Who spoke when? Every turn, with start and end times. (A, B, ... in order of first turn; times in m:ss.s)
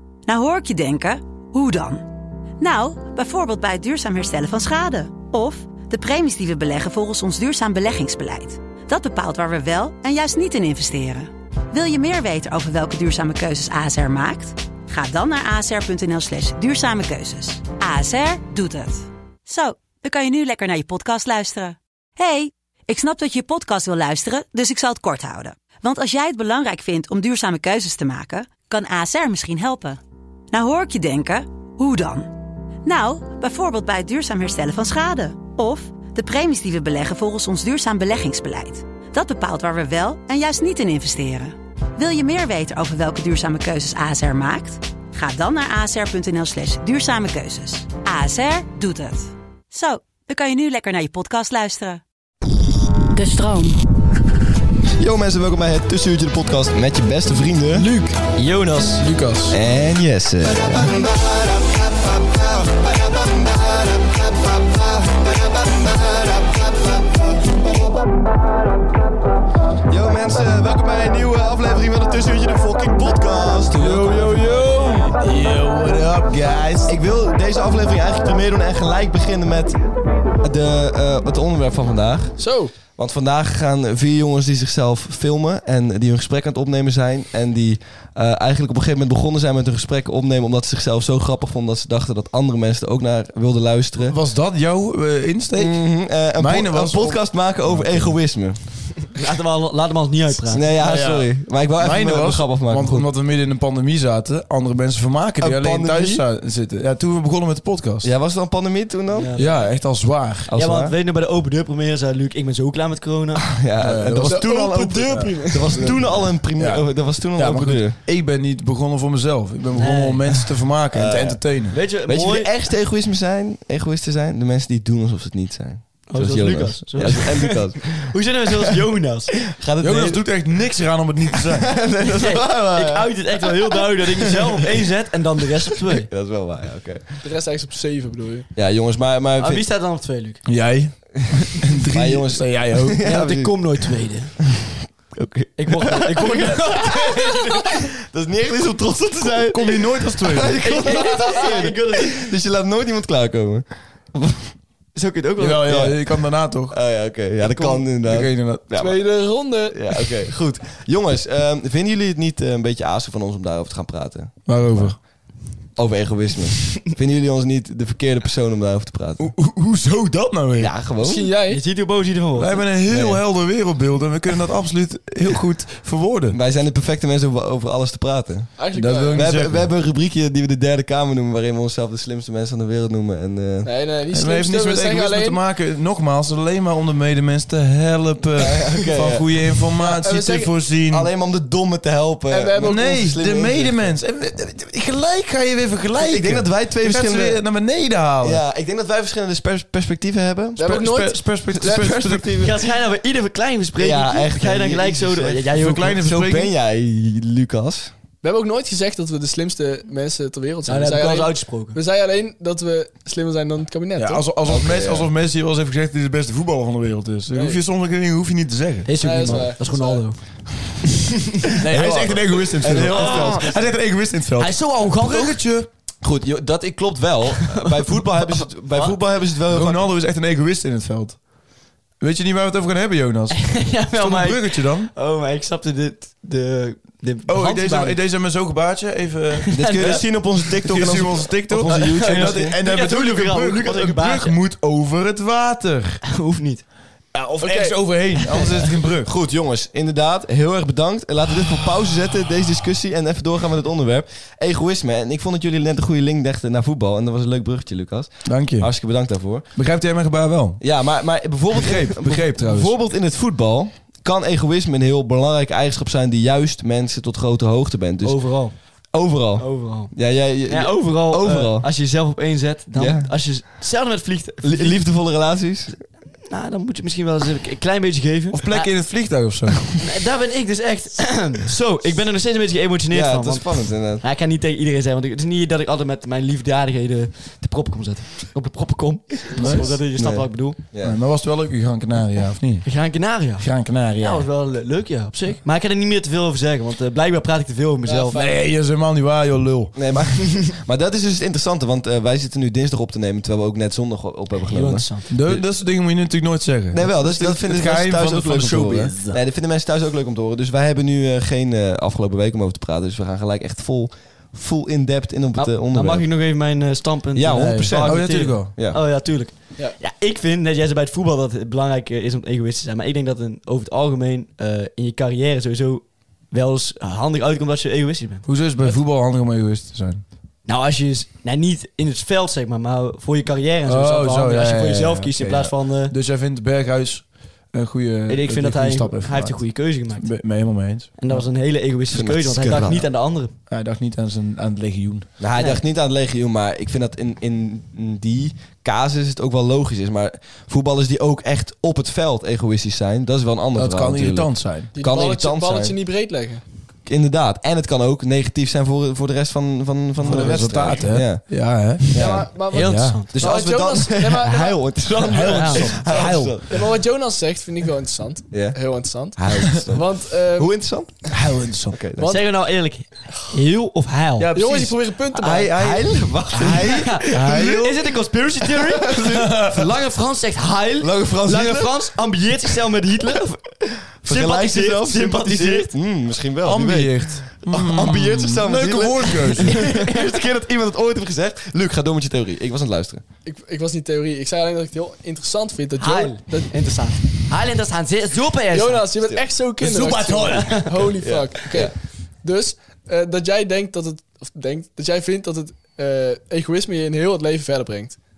0:00.3-0:02.0 A
0:02.6-0:30.0 A
0:30.5-0:32.3 A
0:32.8-0:52.0 A
0:53.1-0:53.8 A
0:55.0-0:57.9 B
0:57.8-0:58.2 C
0:58.3-0:59.0 D
0:59.0-0:59.6 C
0:59.5-1:07.7 B
1:09.9-1:15.0 B
1:13.7-1:17.0 C
1:14.4-1:15.0 E
1:16.8-1:19.8 B
1:20.4-1:22.4 B
1:22.4-1:22.7 E
1:22.9-1:34.2 B
1:34.0-1:38.2 C
1:35.6-1:38.6 B
1:39.1-1:40.7 D
1:40.5-1:43.1 B
1:40.8-1:48.1 C
1:45.4-1:46.2 B
1:48.0-1:49.3 B
1:49.1-1:49.7 D
1:49.4-1:50.5 C
1:50.5-1:50.9 B
1:50.5-1:53.4 D
1:53.4-1:58.0 B
1:53.8-1:54.5 C
1:54.2-1:56.0 E
1:55.1-2:01.8 C
1:59.8-2:00.4 D
2:00.9-2:08.1 B
2:01.7-2:02.5 D
2:06.1-2:09.4 D
2:09.5-2:10.2 B
2:09.8-2:11.8 C
2:11.5-2:14.4 B
2:12.1-2:16.1 D
2:15.8-2:17.2 B
2:17.2-2:18.5 E
2:18.5-2:19.6 B
2:19.4-2:20.4 D
2:20.4-2:23.0 C
2:21.8-2:23.6 B
2:23.0-2:24.3 D
2:24.5-2:27.1 B
2:25.6-2:27.7 D
2:27.6-2:34.5 B
2:29.4-2:30.6 C
2:30.6-2:32.3 D
2:34.9-2:35.8 D
2:35.4-2:36.8 C
2:35.6-2:36.0 B
2:36.7-2:39.0 B
2:37.4-2:37.8 D
2:38.0-2:38.6 C
2:38.7-2:39.8 E
2:39.7-2:44.9 B
2:44.4-2:45.0 C
2:45.8-2:49.3 B
2:49.2-2:50.7 C
2:50.6-2:51.3 B
2:51.0-2:51.6 E
2:51.5-2:52.7 D
2:52.4-2:56.4 C
2:52.9-2:53.2 B
2:56.3-2:58.5 B
2:58.6-2:59.3 E
2:58.7-2:59.7 C
2:59.1-3:03.7 B
3:03.6-3:05.4 E
3:04.1-3:11.1 C
3:08.4-3:09.3 B
3:09.8-3:10.5 E
3:10.9-3:14.0 B
3:12.3-3:12.9 E
3:12.6-3:18.4 C
3:16.0-3:17.4 B
3:18.2-3:20.9 B
3:20.6-3:22.4 E
3:20.6-3:22.6 C
3:21.6-3:22.0 B
3:22.4-3:26.0 D
3:23.8-3:27.9 B
3:25.5-3:26.5 C
3:28.2-3:34.2 E
3:30.6-3:31.8 D
3:34.0-3:39.4 C
3:34.4-3:35.1 B
3:37.3-3:37.6 E
3:38.8-3:40.2 D
3:39.0-3:40.0 E
3:41.6-3:45.7 C
3:41.7-3:43.5 B
3:42.8-3:43.7 D
3:44.4-3:45.4 D
3:46.0-3:49.9 B
3:47.5-3:49.0 D
3:49.5-3:51.2 C
3:52.0-3:54.9 C
3:53.3-3:58.0 D
3:57.3-4:00.0 C
3:59.4-4:00.1 D
3:59.5-4:02.6 B
4:00.6-4:06.0 C
4:01.7-4:04.4 D
4:06.0-4:06.6 D
4:07.1-4:09.1 C
4:07.4-4:07.8 E
4:09.0-4:19.4 B
4:18.2-4:18.7 C
4:19.5-4:20.6 C
4:20.6-4:28.2 B
4:21.5-4:22.7 C
4:28.0-4:28.5 D
4:28.9-4:31.7 B
4:29.4-4:29.9 D
4:30.4-4:34.8 D
4:32.7-4:33.1 B
4:34.4-4:35.7 B
4:36.2-4:38.7 D
4:38.3-4:39.8 C
4:39.8-4:50.6 D
4:42.9-4:44.0 B
4:49.3-4:49.7 E
4:49.4-4:49.7 C
4:49.9-4:51.0 B
4:50.8-4:52.7 C
4:52.6-4:58.3 D
4:53.4-4:54.3 C
4:57.8-4:58.3 E
4:58.1-4:59.8 C
4:59.7-5:05.4 B
5:04.4-5:05.1 D
5:05.1-5:09.2 C
5:06.7-5:16.1 B
5:15.3-5:28.8 D
5:17.1-5:18.8 B
5:17.3-5:18.5 C
5:28.2-5:30.0 C
5:30.4-5:35.9 D
5:33.6-5:41.2 C
5:38.1-5:40.1 D
5:41.0-5:43.3 D
5:41.9-5:42.9 B
5:43.5-5:45.1 C
5:45.2-5:55.8 B
5:45.4-5:45.6 D
5:53.5-5:54.7 C
5:54.8-5:56.4 E
5:56.8-6:02.3 B
6:00.0-6:01.9 C
6:01.9-6:04.6 E
6:02.5-6:03.2 D
6:02.6-6:03.0 C
6:03.1-6:06.7 B
6:05.0-6:06.4 C
6:05.2-6:05.8 D
6:05.9-6:10.5 E
6:08.3-6:08.6 B
6:09.1-6:11.1 B
6:11.1-6:11.8 C
6:11.7-6:12.1 B
6:12.0-6:12.2 E
6:12.0-6:14.3 D
6:14.2-6:14.8 C
6:14.3-6:15.8 E
6:15.1-6:17.6 B
6:16.3-6:23.4 D
6:16.5-6:17.9 C
6:18.6-6:19.8 B
6:19.1-6:19.6 C
6:20.8-6:21.8 B
6:23.6-6:33.0 B
6:24.0-6:25.7 D
6:26.4-6:29.6 C
6:29.5-6:29.9 D
6:33.2-6:36.5 E
6:35.8-6:38.9 D
6:38.5-6:48.0 E
6:39.6-6:40.9 D
6:39.6-6:40.6 C
6:41.0-6:41.7 B